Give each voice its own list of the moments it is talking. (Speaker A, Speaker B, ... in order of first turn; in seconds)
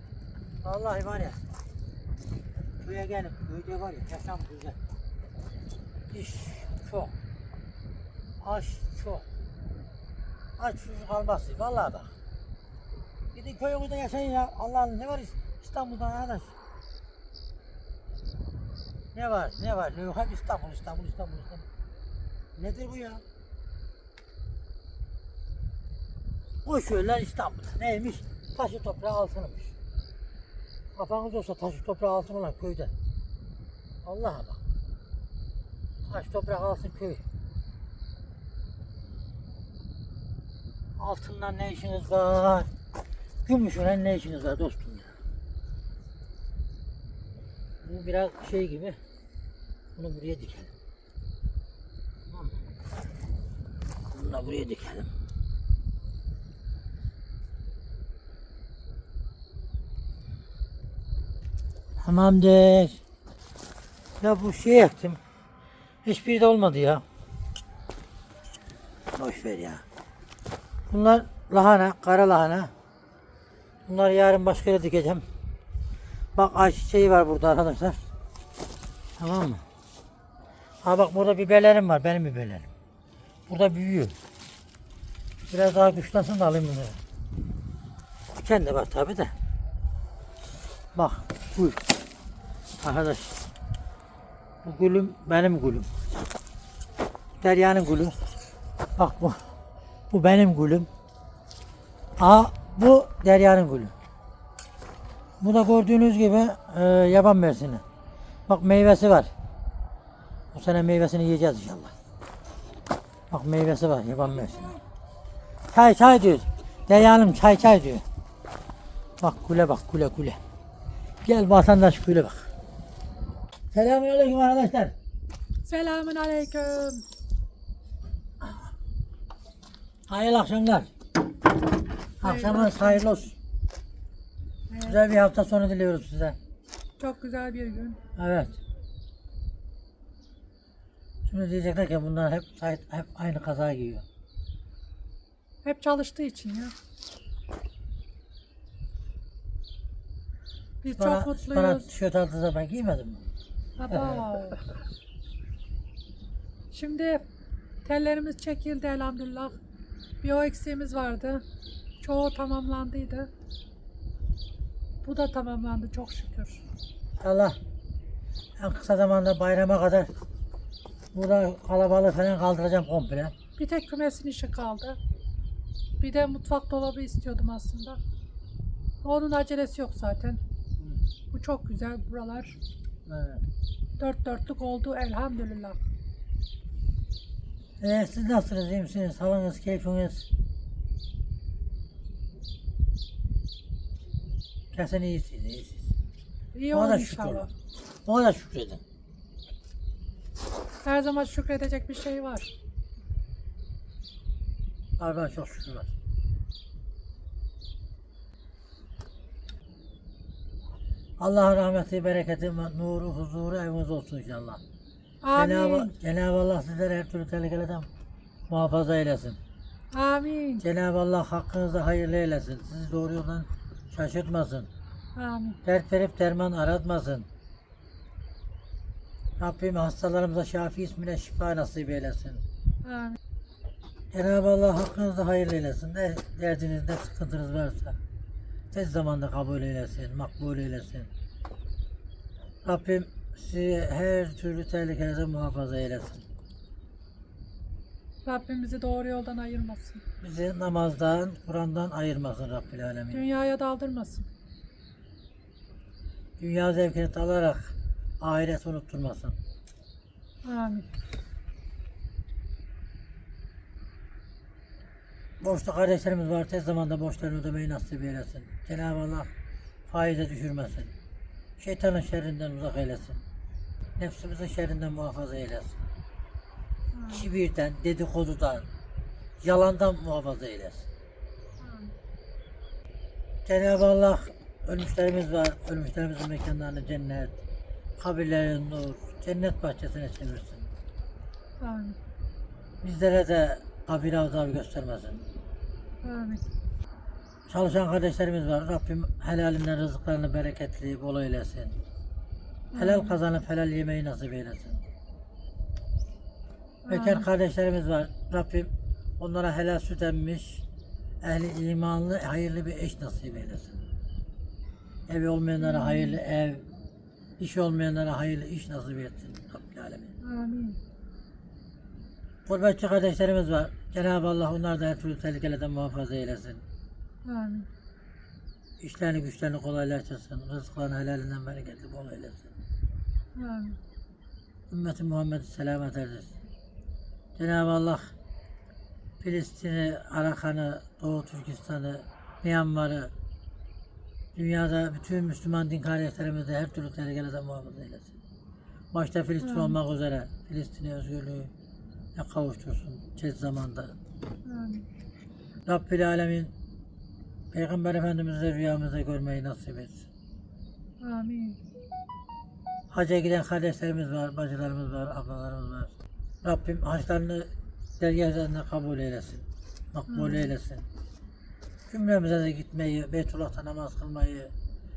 Speaker A: 0.6-1.4, 2.8-4.8, 6.1-7.1, 8.4-9.2, 10.6-12.1, 13.3-16.5, 19.1-21.7, 22.6-23.2, 26.6-29.8, 30.9-32.9, 34.0-34.6, 36.1-37.2, 41.0-42.7, 43.5-45.1, 47.8-49.0, 50.0-50.7, 52.3-52.6, 54.1-55.1, 62.0-63.0, 64.2-65.2, 66.0-67.0, 69.2-69.8, 70.9-72.7, 73.9-75.2, 76.4-78.0, 79.2-79.6, 80.8-82.7, 83.5-84.2, 85.5-87.0, 88.4-89.3, 91.0-91.8, 92.8-93.4, 94.6-95.9, 97.4-98.2, 99.0-99.4, 100.1-100.9, 102.2-103.9, 105.4-107.8, 108.5-109.3, 110.5-111.9, 113.3-114.8, 115.7-118.0, 119.2-120.4, 121.2-122.5, 123.7-125.0, 130.1-130.9, 132.2-133.3, 134.8-136.4, 138.2-138.6, 141.3-144.1, 150.9-153.3, 153.9-154.3, 167.2-167.6, 168.6-170.1, 171.1-173.3, 183.1-183.4, 187.8-190.3, 194.7-195.9, 196.7-197.5, 198.1-198.8, 205.0-205.9, 211.2-214.6, 215.3-217.9, 218.5-219.4, 220.6-224.7, 225.7-227.3, 229.4-232.4, 234.1-238.0, 238.7-241.1, 242.6-246.3, 250.2-253.2, 256.4-259.4, 265.4-269.3, 269.9-270.9, 271.6-273.2, 274.0-275.8, 277.1-278.7, 279.4-280.9, 283.5-287.4, 288.0-290.7, 292.8-295.2, 297.5-301.8, 302.8-304.8, 306.9-310.6, 311.2-313.8, 315.1-316.7, 317.4-320.2, 322.5-326.6, 328.8-332.5, 334.7-336.4, 337.4-338.1, 339.2-343.1, 344.4-348.2, 348.9-351.5, 352.1-353.9, 355.7-356.5, 357.5-360.1, 362.9-370.9, 371.9-374.5
Speaker B: 125.7-127.0, 132.2-133.2, 134.7-135.0, 137.0-138.0, 145.6-146.7, 150.8-151.9, 153.8-154.6, 156.7-157.2, 157.8-159.6, 160.2-161.4, 162.0-163.3, 165.0-166.6, 173.6-175.0, 176.0-178.0, 179.0-180.4, 181.3-182.6, 184.0-185.8, 196.5-197.5, 200.8-202.5, 215.2-215.9, 219.9-220.7, 225.2-225.6, 232.8-233.2, 248.2-250.0, 253.1-254.3, 260.4-260.9, 276.9-277.3, 281.6-281.9, 291.6-292.0, 296.0-296.4, 302.7-303.2, 306.9-307.3, 315.6-316.2, 320.2-320.8, 327.2-327.7, 333.4-333.8, 349.4-349.8, 354.4-354.9, 361.0-361.6, 370.1-370.5